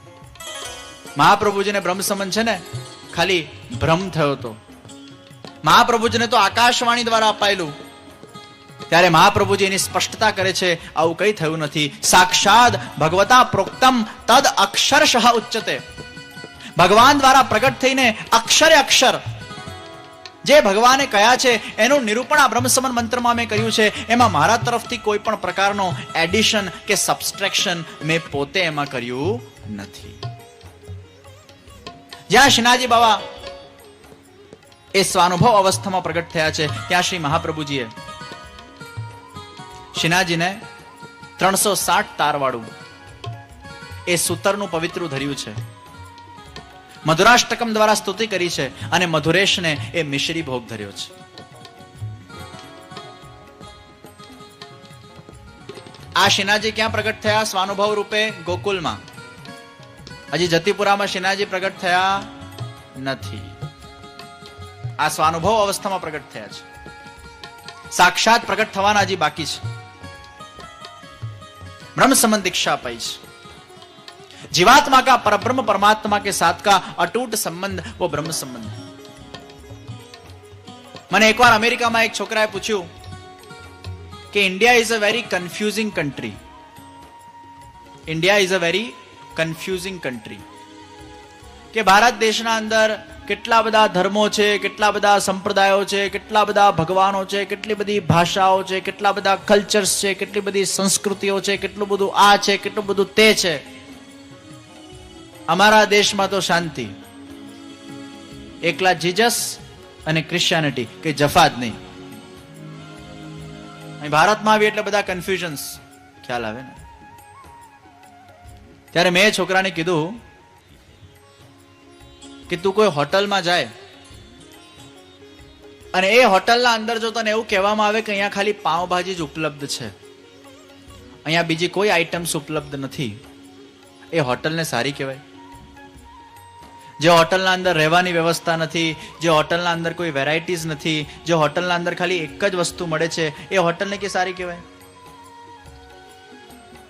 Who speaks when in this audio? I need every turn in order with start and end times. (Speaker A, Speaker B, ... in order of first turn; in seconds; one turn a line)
Speaker A: 1.2-4.6
Speaker A: 5.6-7.7
Speaker A: 8.9-15.8
Speaker A: 16.8-19.2
Speaker A: 20.4-30.2
Speaker A: 32.3-33.2
Speaker A: 35.0-37.9
Speaker A: 40.0-40.6
Speaker A: 41.4-42.7
Speaker A: 44.1-45.6
Speaker A: 47.1-51.1
Speaker A: 56.2-59.0
Speaker A: 60.3-62.3
Speaker A: 63.0-63.6
Speaker A: 65.0-66.7
Speaker A: 68.0-69.6
Speaker A: 72.0-73.2
Speaker A: 74.5-78.8
Speaker A: 81.1-82.9
Speaker A: 84.3-86.4
Speaker A: 88.1-90.4
Speaker A: 91.7-103.6
Speaker A: 105.5-106.9
Speaker A: 108.7-111.8
Speaker A: 114.0-116.8
Speaker A: 118.9-120.2
Speaker A: 122.5-123.7
Speaker A: 125.9-129.9
Speaker A: 131.2-133.2
Speaker A: 134.1-135.2
Speaker A: 137.0-144.7